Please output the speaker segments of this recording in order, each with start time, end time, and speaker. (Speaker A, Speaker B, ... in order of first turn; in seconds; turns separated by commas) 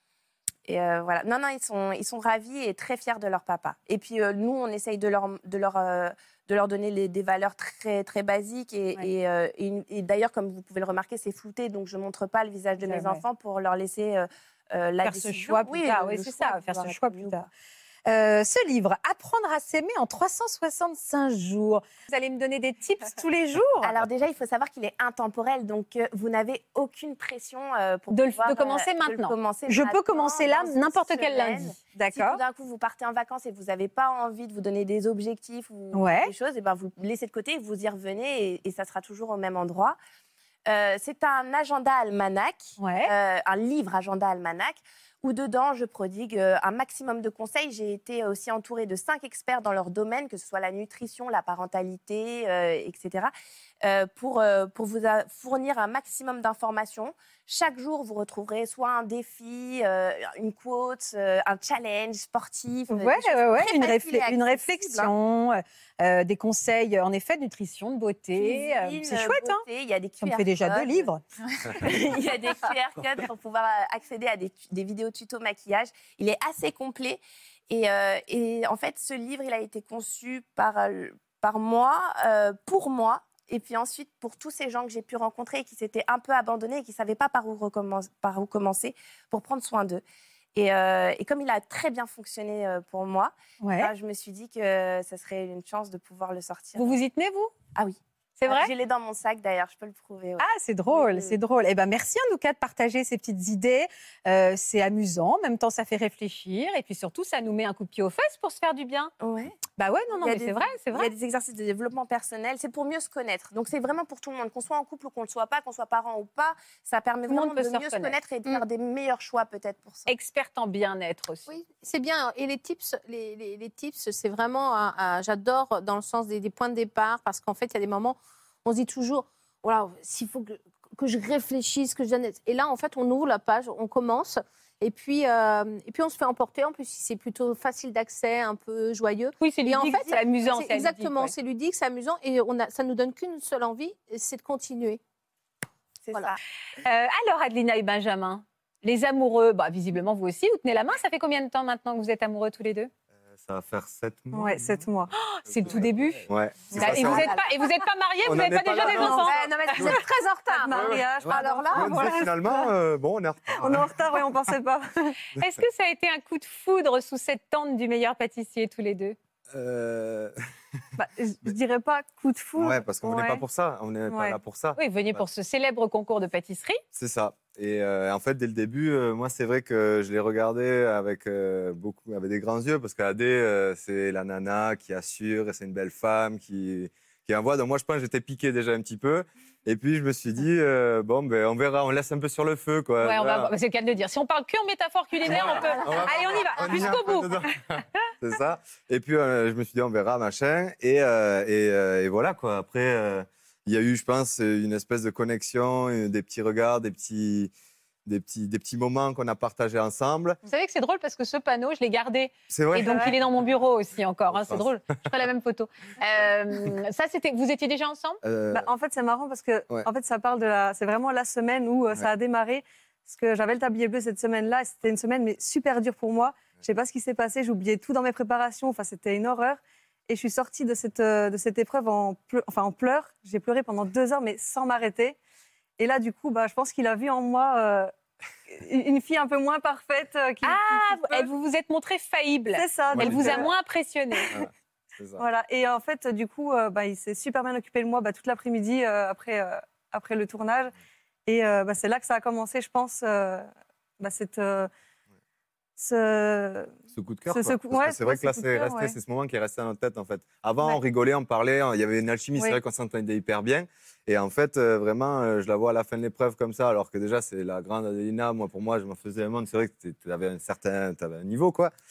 Speaker A: 0.7-17.4, Speaker B: 12.8-13.2, Speaker B: 15.0-17.5, Speaker B: 18.1-23.9, Speaker A: 23.8-40.0, Speaker B: 28.1-32.4, Speaker B: 35.9-36.3, Speaker A: 40.7-65.1, Speaker B: 42.8-43.1, Speaker B: 62.9-69.6, Speaker A: 68.3-90.0, Speaker B: 70.2-71.2, Speaker A: 90.5-97.0, Speaker B: 93.6-93.9, Speaker B: 96.8-97.5, Speaker A: 97.8-101.4, Speaker B: 98.4-98.7, Speaker B: 100.4-109.1, Speaker A: 109.2-109.6, Speaker B: 109.8-111.1, Speaker A: 110.2-120.1, Speaker B: 117.3-118.6, Speaker B: 120.1-121.5, Speaker C: 121.5-145.0, Speaker B: 139.4-141.3, Speaker A: 146.0-146.4, Speaker B: 146.8-152.9, Speaker D: 153.4-154.8, Speaker E: 154.3-155.1, Speaker B: 155.1-159.9, Speaker D: 155.5-157.4, Speaker D: 158.2-160.0, Speaker E: 158.8-159.3, Speaker C: 159.3-160.8, Speaker E: 159.9-162.7, Speaker D: 160.7-164.3, Speaker C: 161.3-161.9, Speaker E: 163.5-165.2, Speaker B: 165.4-169.2, Speaker D: 169.5-170.3, Speaker E: 171.0-173.4, Speaker D: 172.6-175.2, Speaker E: 174.1-174.4, Speaker B: 174.8-176.8, Speaker D: 176.9-193.5, Speaker B: 193.0-197.4, Speaker D: 195.2-207.5, Speaker D: 208.1-210.4, Speaker B: 210.4-218.2, Speaker D: 212.5-213.2, Speaker E: 212.7-213.1, Speaker D: 214.3-214.7, Speaker D: 218.2-218.7, Speaker E: 218.5-235.2, Speaker E: 235.8-237.9, Speaker E: 238.5-241.3, Speaker B: 240.4-244.3, Speaker E: 242.5-243.5, Speaker D: 242.9-243.5, Speaker D: 244.3-245.2, Speaker E: 245.2-250.7, Speaker E: 251.3-253.5, Speaker E: 254.0-254.7, Speaker E: 255.8-256.7, Speaker D: 256.9-271.7, Speaker E: 257.3-258.9